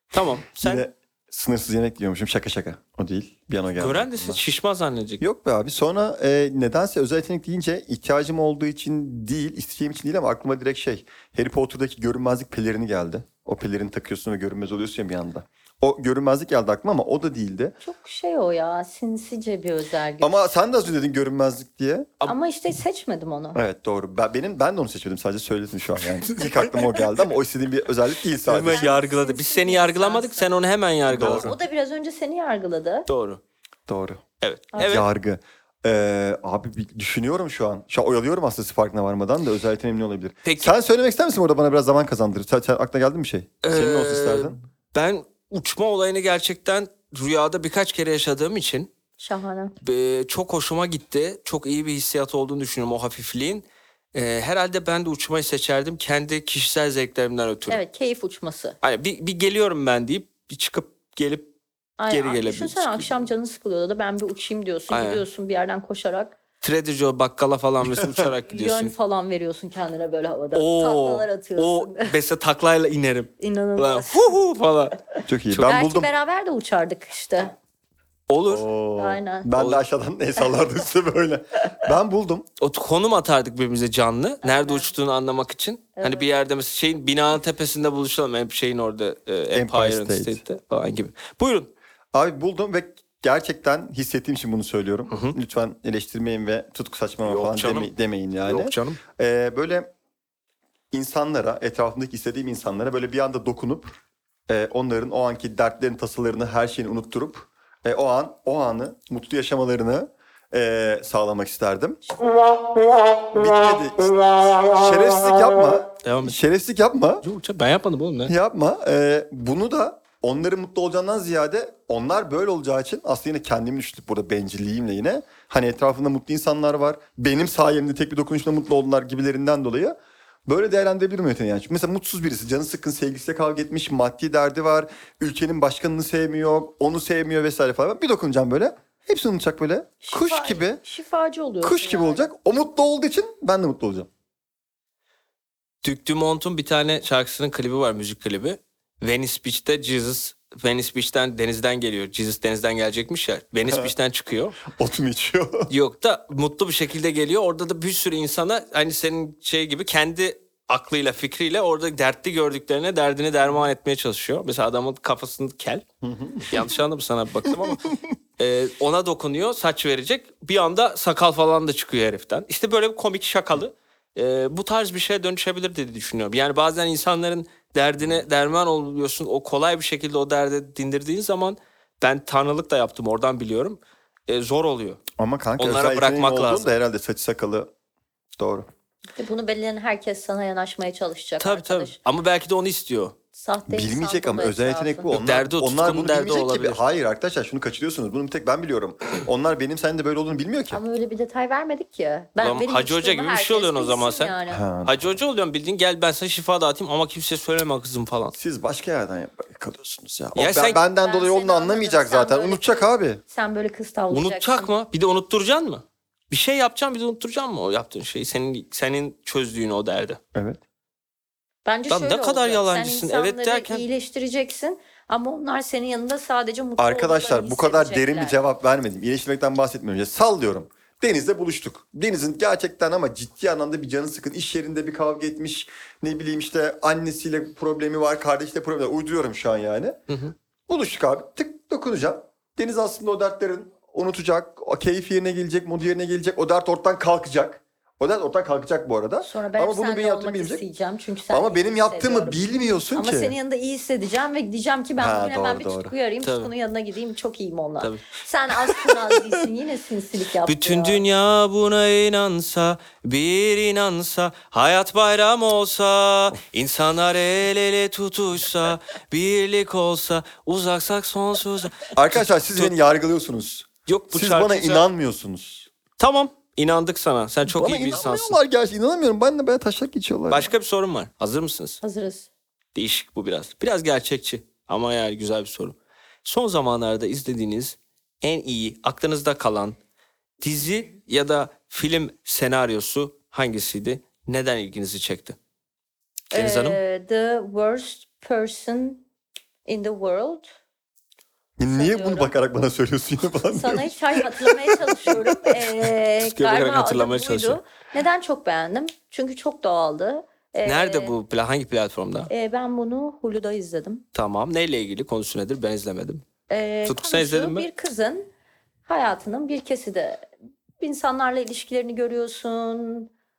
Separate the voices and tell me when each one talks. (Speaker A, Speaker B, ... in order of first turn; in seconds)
Speaker A: 0.1-0.9, 3.8-5.2, 26.2-27.0, 28.4-31.5, 33.1-33.4, 34.4-35.0, 40.4-40.7, 43.6-48.9, 49.8-57.8, 58.8-61.5, 62.1-63.2, 64.9-65.2, 66.6-68.9, 70.5-75.0, 75.5-75.8, 78.3-78.7, 79.5-79.8, 82.6-91.7, 95.1-95.3, 97.2-97.9, 98.5-99.0, 116.0-116.3, 117.2-118.3, 145.8-154.6, 155.7-165.8, 166.5-185.0, 185.6-186.7, 191.4-193.2, 195.1-196.8, 202.4-208.3, 210.3-210.8, 214.1-220.2, 221.9-223.8, 240.1-240.3, 256.2-256.5, 257.8-258.1, 260.5-272.7, 273.9-274.9, 276.0-278.4, 280.3-281.8, 282.7-289.8, 290.4-295.4, 296.3-296.8, 306.2-307.6, 310.6-312.3, 314.1-316.2, 316.9-317.6
Speaker B: 0.5-4.4, 5.2-17.8, 20.2-22.1, 23.5-28.9, 31.1-31.6, 33.9-34.2, 34.8-44.6, 67.8-68.3, 75.2-76.1, 78.5-82.5, 89.5-90.4, 92.1-99.9, 100.9-112.0, 113.3-117.2, 118.2-140.8, 141.6-144.1, 154.7-155.7, 166.0-166.7, 167.5-167.9, 185.2-187.7, 188.4-188.7, 193.7-200.8, 204.5-205.1, 208.3-213.2, 220.3-220.6, 226.8-240.0, 240.7-250.6, 251.3-253.3, 255.0-255.9, 271.9-275.7, 277.5-280.5, 301.6-305.1
Speaker C: 17.8-20.5, 22.2-23.6, 28.6-30.5, 31.1-33.1, 34.7-35.0, 49.2-49.7, 57.7-58.8, 62.0-66.4, 68.5-72.1, 73.4-74.3, 75.7-77.5, 79.0-79.5, 84.4-84.9, 86.0-86.3, 140.0-142.3, 189.2-192.0, 193.3-195.1, 200.7-204.6, 210.9-212.8, 213.3-214.7, 221.6-228.4, 249.2-261.0, 281.8-282.3, 296.3-299.0, 299.6-300.5, 301.7-302.3, 303.5-311.1, 312.3-314.0, 316.5-318.3, 318.9-320.3, 320.8-323.1